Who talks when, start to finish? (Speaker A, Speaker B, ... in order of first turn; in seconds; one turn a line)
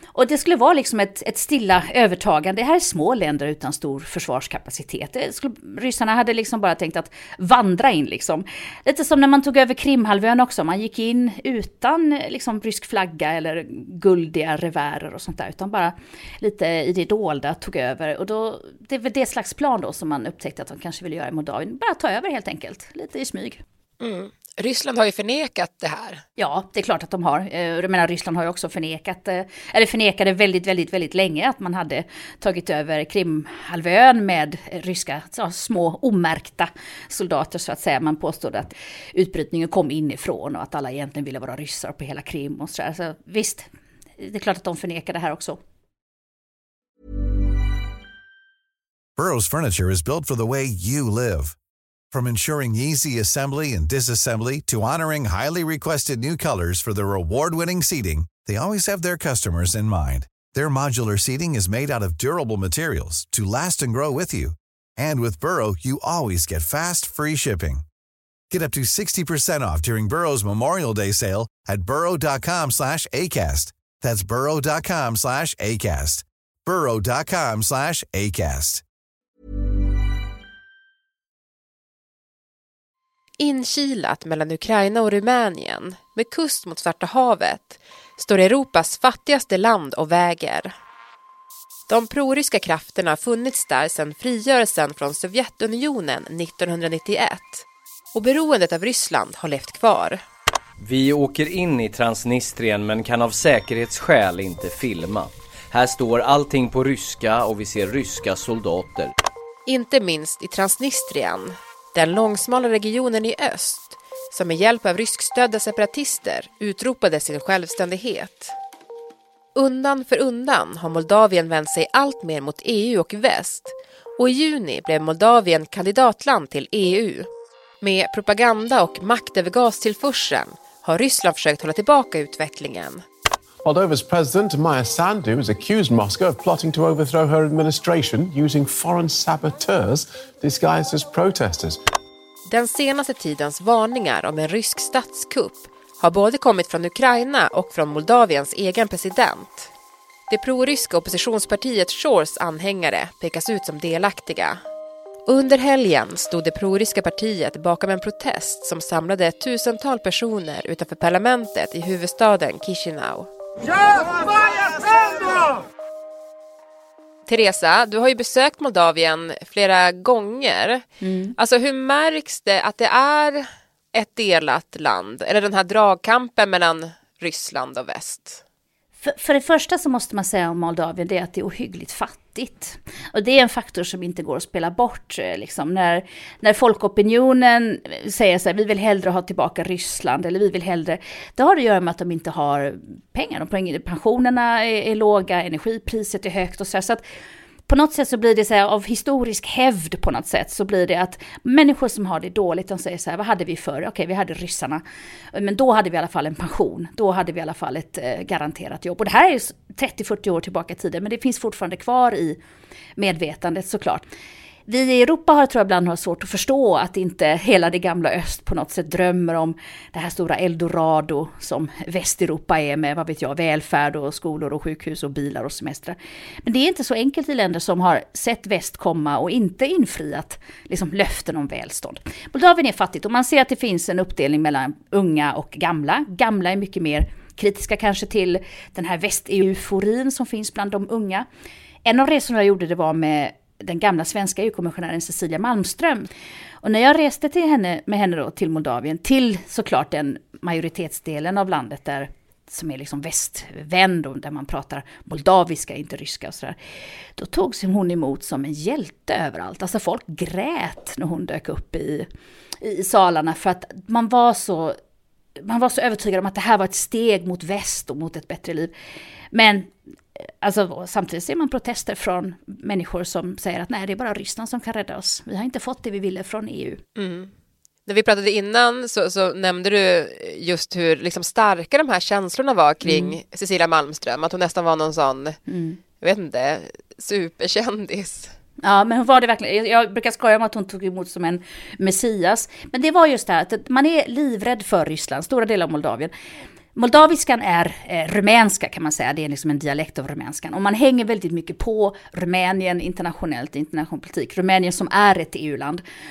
Speaker A: 0.1-23.6
Speaker B: 24.0-26.2
Speaker A: 26.4-45.6
Speaker C: 49.2-51.5
Speaker C: 52.1-67.8
Speaker C: 68.5-78.8
Speaker B: 83.4-90.7
Speaker B: 91.9-100.2
Speaker D: 100.8-109.1
Speaker B: 109.7-118.5
Speaker B: 119.6-127.3
Speaker B: 127.8-133.0
Speaker E: 133.6-141.8
Speaker B: 142.5-149.7
Speaker B: 150.3-154.6
Speaker B: 155.3-163.3
Speaker B: 167.3-178.4
Speaker A: 171.0-171.3
Speaker A: 179.0-197.0
Speaker A: 197.7-204.8
Speaker A: 205.3-212.4
Speaker A: 213.0-214.1
Speaker A: 214.7-241.3
Speaker A: 241.8-246.1
Speaker A: 246.6-256.6
Speaker A: 257.2-262.1
Speaker A: 262.6-264.8
Speaker A: 265.4-268.7
Speaker A: 269.3-269.7
Speaker A: 270.4-276.8
Speaker B: 277.0-277.3
Speaker B: 277.9-285.4
Speaker A: 282.8-283.2
Speaker A: 285.5-285.8
Speaker B: 286.0-288.3
Speaker A: 288.6-296.1
Speaker A: 296.8-305.8